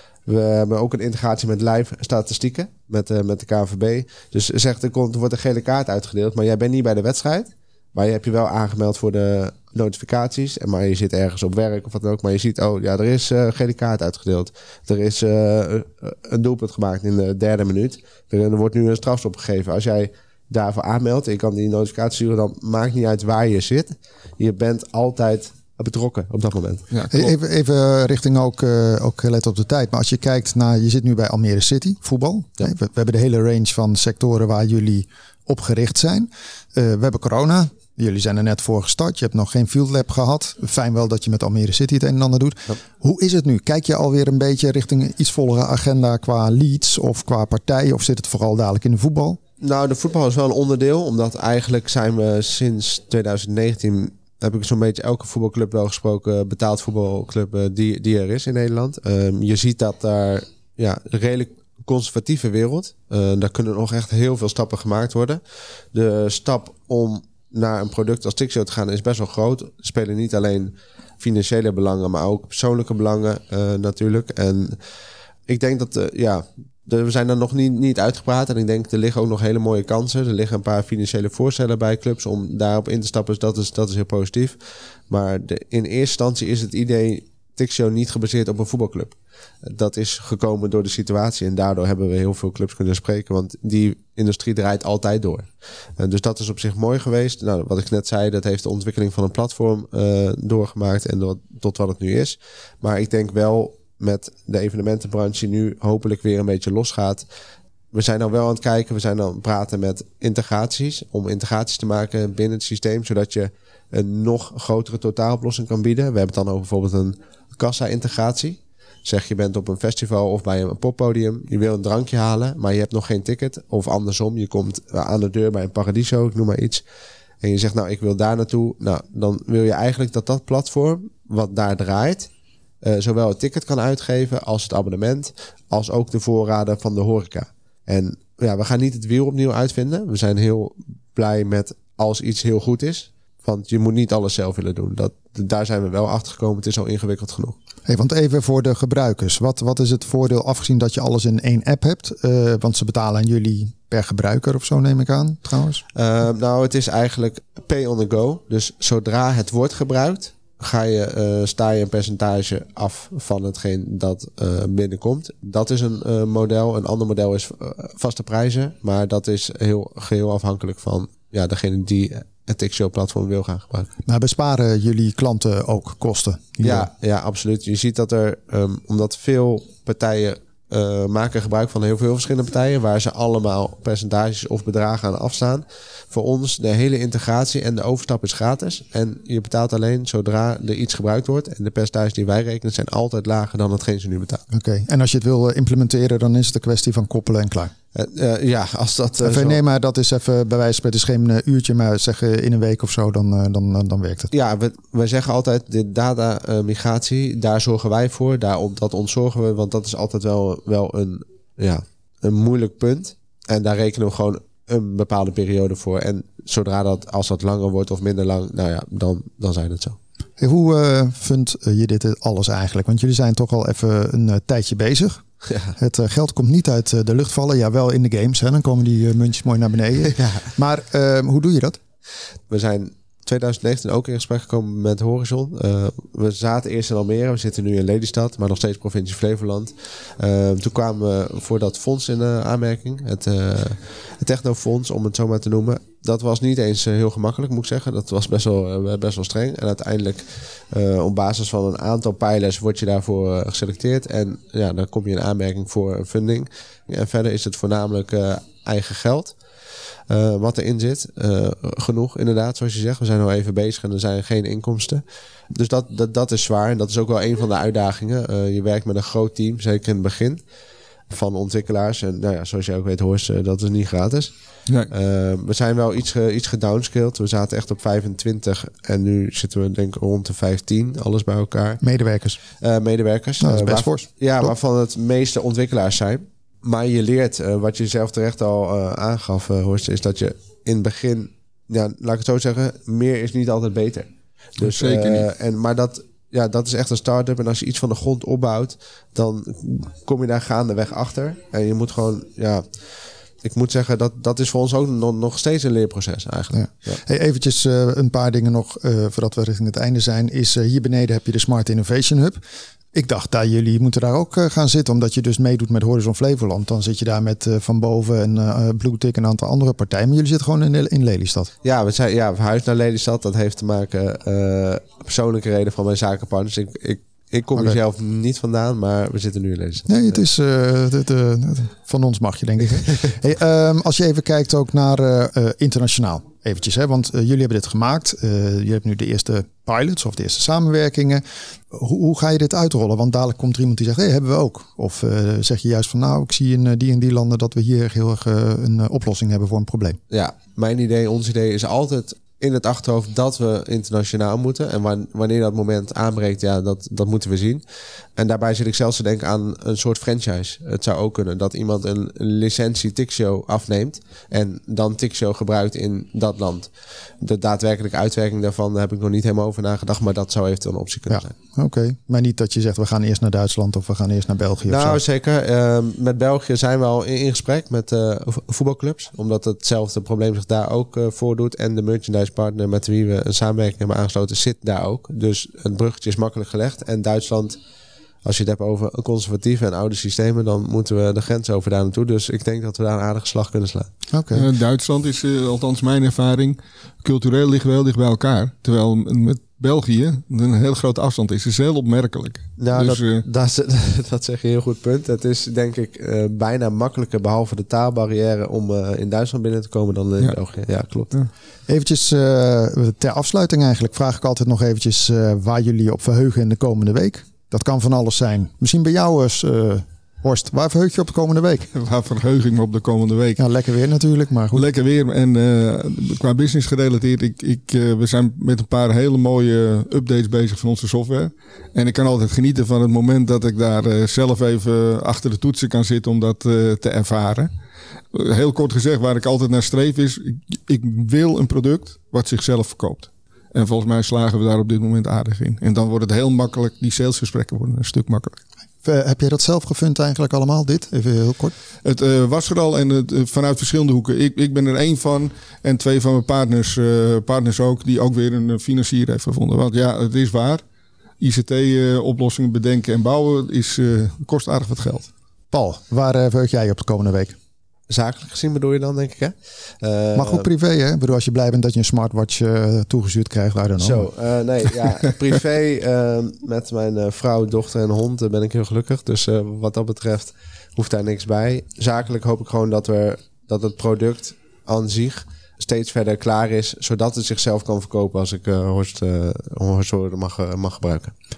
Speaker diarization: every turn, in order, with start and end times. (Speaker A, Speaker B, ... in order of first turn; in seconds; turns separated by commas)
Speaker A: 0.3-26.9, Speaker B: 26.9-27.3, Speaker C: 27.1-49.4, Speaker A: 49.6-65.4, Speaker A: 65.9-74.8, Speaker A: 75.5-84.6, Speaker A: 85.1-107.2, Speaker A: 107.9-126.8, Speaker A: 127.4-132.3, Speaker A: 132.8-147.6, Speaker C: 147.9-155.8, Speaker A: 155.9-173.9, Speaker C: 174.1-176.9, Speaker A: 176.6-194.4, Speaker C: 194.5-197.7, Speaker A: 197.9-199.6, Speaker C: 199.2-204.3, Speaker A: 204.3-220.0, Speaker C: 220.4-225.2, Speaker A: 225.5-225.7, Speaker C: 225.8-231.8, Speaker A: 230.1-230.4, Speaker A: 232.5-259.3, Speaker A: 260.1-270.4, Speaker A: 271.1-274.3, Speaker A: 274.9-281.8, Speaker C: 281.8-282.4, Speaker A: 282.6-302.6, Speaker C: 283.4-284.5, Speaker B: 294.6-295.3, Speaker A: 303.4-307.0, Speaker C: 306.5-312.4, Speaker C: 312.9-321.5, Speaker A: 321.6-330.2, Speaker C: 329.9-350.0, Speaker A: 350.1-357.6, Speaker A: 358.2-366.7, Speaker A: 367.2-371.3, Speaker C: 371.1-375.0, Speaker A: 374.7-387.6, Speaker A: 388.2-393.9, Speaker C: 394.1-394.5, Speaker B: 394.3-403.2, Speaker A: 402.6-411.1, Speaker C: 411.7-421.7, Speaker B: 421.7-423.4, Speaker C: 423.4-424.6, Speaker B: 424.5-437.5, Speaker B: 438.1-448.4, Speaker C: 448.8-451.5, Speaker B: 451.8-460.6, Speaker B: 461.2-465.1, Speaker C: 465.5-467.4, Speaker A: 467.9-470.5, Speaker C: 470.1-474.1, Speaker A: 473.8-491.1